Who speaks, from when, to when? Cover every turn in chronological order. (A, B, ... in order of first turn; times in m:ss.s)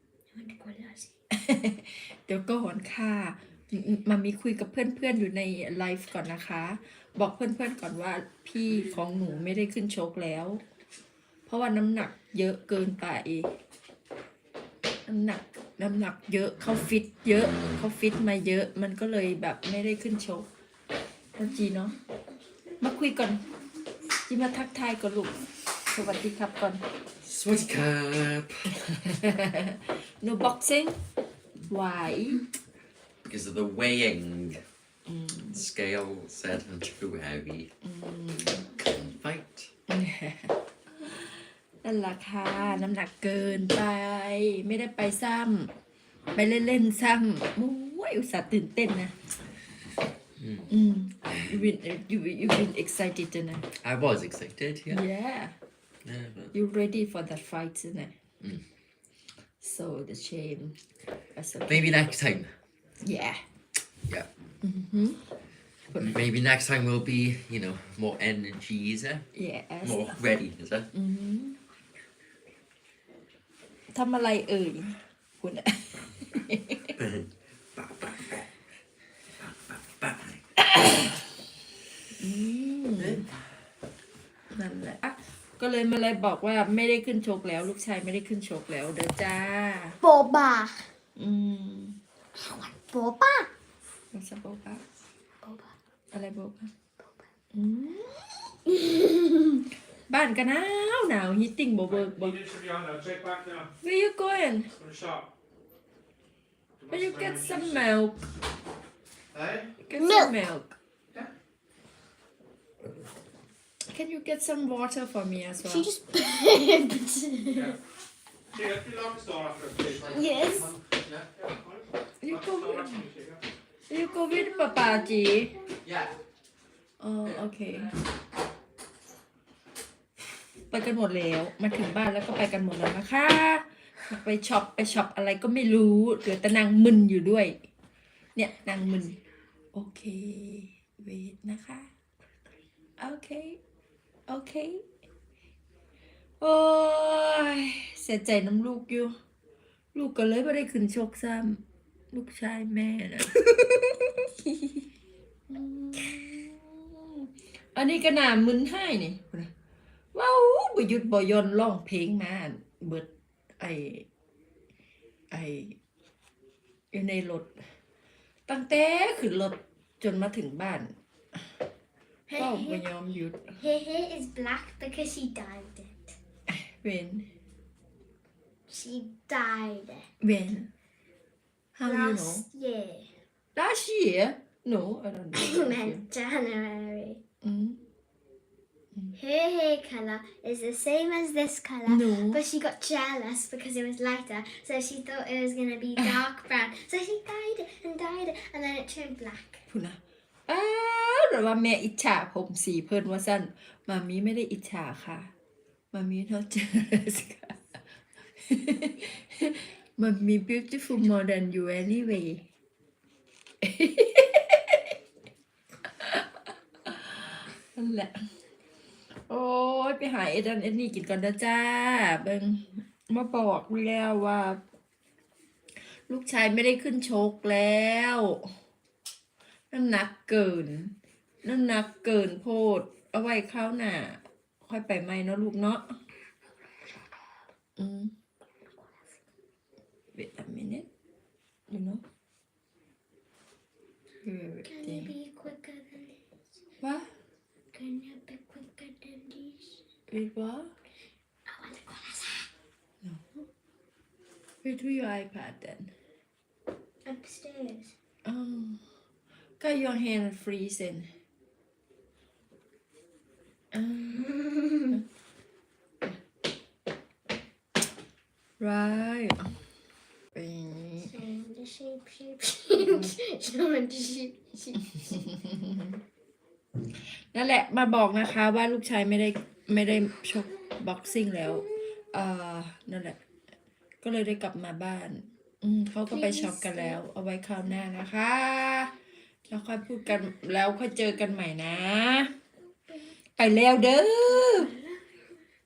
0:00.3-0:01.1 A
0:01.3-0:10.6 B
0:11.5-0:13.5 B
0:15.0-0:20.4 B
0:21.4-0:21.9 B
0:22.8-0:23.4 B
0:24.3-0:25.4 B
0:25.9-0:26.8 B
0:27.2-0:28.8 C
0:28.8-0:31.0 B
0:31.7-0:32.4 B
0:33.2-0:34.6 C
0:35.1-0:35.6 B
0:35.5-0:37.7 C
0:37.8-0:38.7 B
0:38.7-0:39.7 C
0:39.9-0:45.7 B
0:46.3-0:49.1 B
0:50.4-0:50.7 C
0:50.7-0:53.7 B
0:53.8-0:55.0 C
0:54.9-0:55.5 B
0:56.0-0:56.5 C
0:56.5-0:58.1 B
0:59.6-1:00.8 B
1:01.3-1:02.0 B
1:01.7-1:02.5 C
1:03.0-1:03.4 B
1:04.6-1:05.2 B
1:06.0-1:09.3 C
1:09.3-1:10.2 B
1:09.8-1:10.9 C
1:10.9-1:11.6 B
1:13.9-1:16.9 B
1:16.9-1:18.5 C
1:19.4-1:20.4 C
1:22.2-1:23.2 B
1:23.0-1:23.4 C
1:24.5-1:30.0 B
1:30.0-1:30.9 A
1:31.2-1:32.0 B
1:32.3-1:33.5 A
1:34.1-1:34.8 B
1:35.4-1:35.7 A
1:36.1-1:36.7 B
1:37.0-1:37.2 A
1:37.5-1:38.4 B
1:38.9-1:39.3 A
1:40.1-1:42.4 B
1:41.9-1:43.7 D
1:43.8-1:44.7 B
1:44.8-1:45.3 D
1:46.8-1:47.8 D
1:46.9-1:48.2 B
1:49.3-1:49.7 D
1:49.8-1:50.7 B
1:50.0-1:50.3 A
1:53.9-1:55.9 B
1:55.6-1:57.8 A
1:58.5-2:00.0 D
1:59.8-2:01.3 C
2:00.1-2:00.7 A
2:01.3-2:03.4 D
2:02.2-2:03.0 B
2:03.9-2:05.5 B
2:04.0-2:06.1 A
2:05.8-2:06.1 C
2:07.0-2:07.9 B
2:10.7-2:17.6 B
2:18.4-2:19.1 B
2:19.7-2:21.9 B
2:23.0-2:23.6 B
2:24.3-2:24.8 B
2:26.4-2:29.1 B
2:29.9-2:31.6 B
2:32.1-2:34.8 B
2:35.5-2:39.5 B
2:40.1-2:43.1 B
2:43.6-2:44.0 B
2:45.3-2:45.8 B
2:46.9-2:47.5 B
2:48.5-2:50.9 B
2:52.3-2:52.8 A
2:52.4-2:53.4 B
2:53.6-2:56.1 A
2:56.5-2:57.3 B
2:58.7-3:00.1 A
3:00.2-3:00.7 B
3:01.8-3:02.4 B
3:01.8-3:03.1 A
3:03.5-3:06.0 B
3:05.3-3:07.2 A
3:07.4-3:07.8 B
3:09.1-3:19.6 A
3:11.8-3:12.4 B
3:19.7-3:25.3 B
3:25.9-3:27.8 B
3:28.4-3:32.4 B
3:33.6-3:34.8 B
3:36.0-3:36.3 B
3:36.9-3:38.1 B
3:39.3-3:44.6 B
3:46.1-3:48.5 B
3:49.7-3:55.9 B
3:57.8-3:58.1 B
4:00.1-4:00.9 B
4:01.7-4:02.0 B
4:04.2-4:05.1 B
4:04.6-4:06.2 A
4:06.8-4:07.1 B
4:07.7-4:09.8 A
4:10.1-4:10.7 B
4:11.5-4:12.5 A
4:13.0-4:13.4 B
4:14.6-4:15.9 B
4:17.0-4:17.9 A
4:18.2-4:18.8 B
4:19.6-4:21.1 B
4:23.7-4:25.0 B
4:24.3-4:24.9 A
4:28.6-4:29.6 B
4:30.3-4:31.1 B
4:31.0-4:35.0 A
4:32.8-4:33.1 B
4:35.0-4:36.0 B
4:37.3-4:43.2 B
4:44.0-4:48.9 B
4:46.1-4:47.0 A
4:49.5-4:52.3 B
4:53.4-4:54.7 B
4:54.5-4:55.3 A